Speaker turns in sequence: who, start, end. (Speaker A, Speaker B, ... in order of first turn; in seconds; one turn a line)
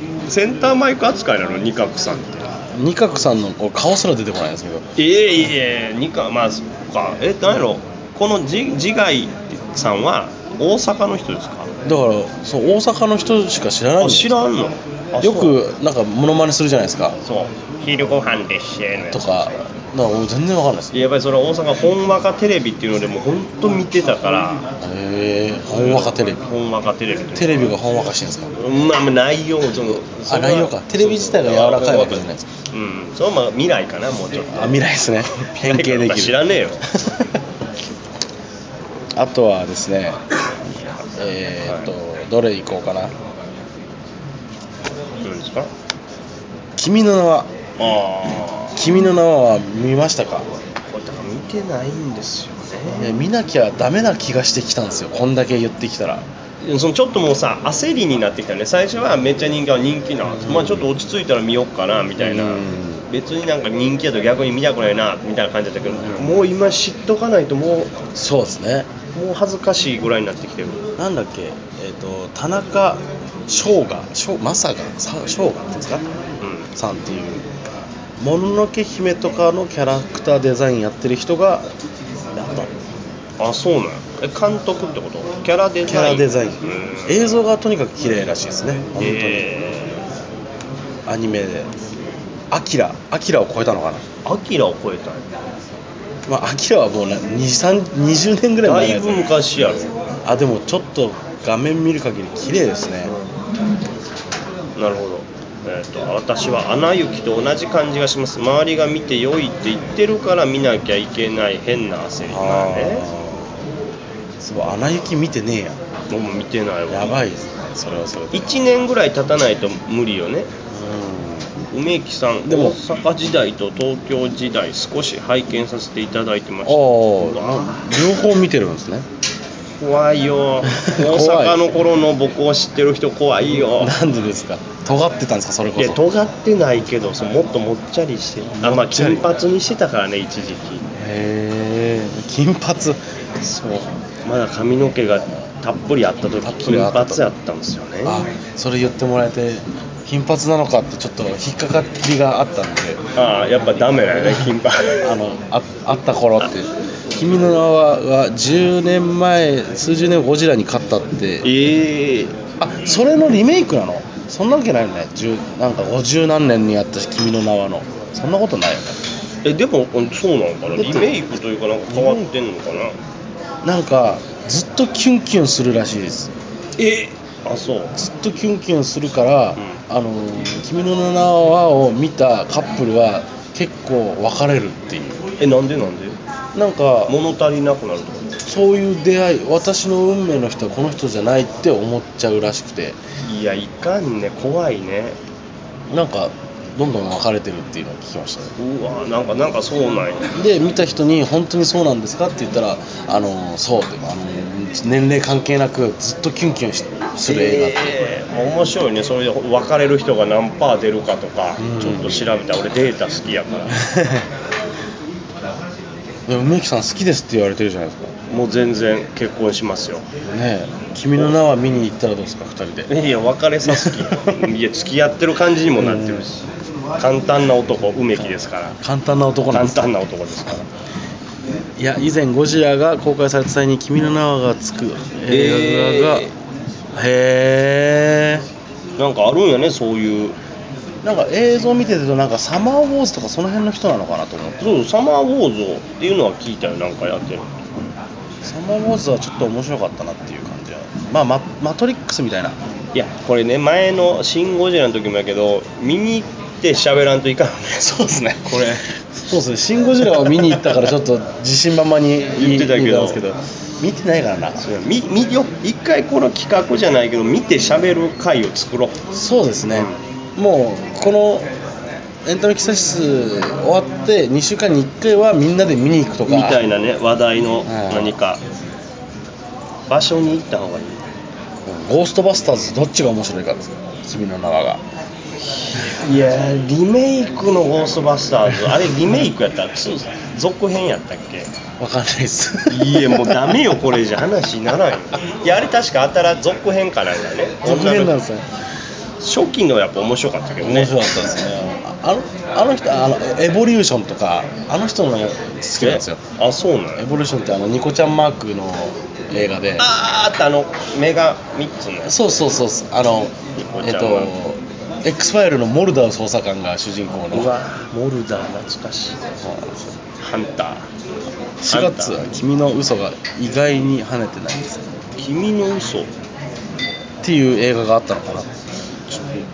Speaker A: 0.3-2.5
Speaker B: 2.7-4.9
Speaker A: 5.0-11.7
Speaker B: 11.8-14.3
Speaker A: 14.0-15.6
Speaker B: 15.2-17.2
Speaker A: 17.2-19.3
Speaker B: 19.1-20.9
Speaker A: 20.9-24.6
Speaker B: 24.8-26.5
Speaker A: 25.7-27.8
Speaker B: 27.4-28.6
Speaker A: 28.6-34.9
Speaker B: 30.2-32.5
Speaker B: 34.5-37.4
Speaker A: 35.4-36.9
Speaker B: 39.1-40.2
Speaker B: 41.2-43.1
Speaker A: 45.2-45.7
Speaker B: 46.8-47.5
Speaker A: 47.8-48.8
Speaker B: 48.8-50.5
Speaker A: 50.9-53.2
Speaker B: 52.9-56.2
Speaker A: 56.6-68.0
Speaker B: 60.3-60.9
Speaker B: 62.2-63.1
Speaker B: 65.9-66.5
Speaker B: 68.2-68.9
Speaker A: 69.1-70.9
Speaker B: 71.0-76.1
Speaker A: 76.4-76.7
Speaker B: 76.8-77.5
Speaker B: 78.2-81.7
Speaker B: 82.3-82.7
Speaker A: 83.4-87.4
Speaker B: 85.9-89.5
Speaker A: 89.0-90.0
Speaker B: 91.1-91.7
Speaker B: 92.5-94.0
Speaker A: 94.2-95.2
Speaker B: 96.3-99.4
Speaker A: 98.6-99.9
Speaker B: 100.2-103.1
Speaker A: 103.0-103.3
Speaker A: 104.8-113.1
Speaker B: 112.3-113.6
Speaker B: 114.4-115.8
Speaker A: 116.1-117.2
Speaker B: 116.9-118.5
Speaker A: 118.3-120.5
Speaker B: 120.7-121.5
Speaker A: 121.7-127.7
Speaker B: 122.5-122.8
Speaker B: 126.7-129.1
Speaker A: 129.8-134.0
Speaker B: 130.7-131.7
Speaker B: 133.6-136.0
Speaker A: 135.8-140.9
Speaker B: 138.5-139.4
Speaker B: 141.0-143.0
Speaker A: 143.4-148.2
Speaker B: 146.4-147.2
Speaker B: 148.1-153.0
Speaker A: 153.2-155.1
Speaker B: 153.6-154.5
Speaker B: 155.0-161.5
Speaker A: 161.4-162.3
Speaker B: 162.6-169.0
Speaker A: 169.4-173.0
Speaker B: 170.8-171.2
Speaker B: 171.9-172.2
Speaker B: 173.6-176.3
Speaker A: 176.8-178.0
Speaker B: 178.0-185.2
Speaker A: 185.4-186.2
Speaker B: 186.6-187.2
Speaker A: 187.1-188.4
Speaker B: 188.4-193.0
Speaker A: 193.3-195.2
Speaker B: 195.9-198.5
Speaker A: 198.6-200.3
Speaker B: 200.3-208.1
Speaker A: 207.3-213.8
Speaker B: 211.6-212.3
Speaker B: 213.8-214.2
Speaker B: 216.3-218.2
Speaker A: 218.3-220.1
Speaker B: 220.2-222.9
Speaker A: 222.9-226.4
Speaker B: 223.7-224.3
Speaker B: 225.8-226.3
Speaker A: 227.0-228.8
Speaker B: 228.8-229.9
Speaker A: 229.5-230.7
Speaker B: 231.8-236.3
Speaker A: 235.3-236.3
Speaker B: 236.9-238.4
Speaker A: 239.0-240.3
Speaker B: 241.0-244.7
Speaker A: 244.6-247.7
Speaker B: 248.4-252.6
Speaker A: 252.9-258.9
Speaker B: 257.8-264.6
Speaker A: 260.1-260.8
Speaker A: 262.4-263.2
Speaker A: 264.6-269.0
Speaker B: 269.1-271.5
Speaker B: 272.2-276.6
Speaker A: 276.3-278.4
Speaker B: 277.7-278.1
Speaker A: 279.9-281.0
Speaker B: 281.6-284.8
Speaker A: 285.4-291.5
Speaker B: 291.8-293.8
Speaker A: 292.7-298.1
Speaker B: 297.6-298.5
Speaker A: 299.2-300.9
Speaker B: 300.6-306.2
Speaker A: 305.8-307.1
Speaker B: 307.0-309.9
Speaker A: 309.8-312.2
Speaker B: 312.1-317.5
Speaker A: 313.6-314.3
Speaker A: 317.3-319.2
Speaker B: 319.4-319.9
Speaker A: 320.2-320.9
Speaker B: 321.6-324.9
Speaker A: 321.7-322.2
Speaker A: 325.2-326.1
Speaker B: 327.2-328.5
Speaker A: 329.1-329.4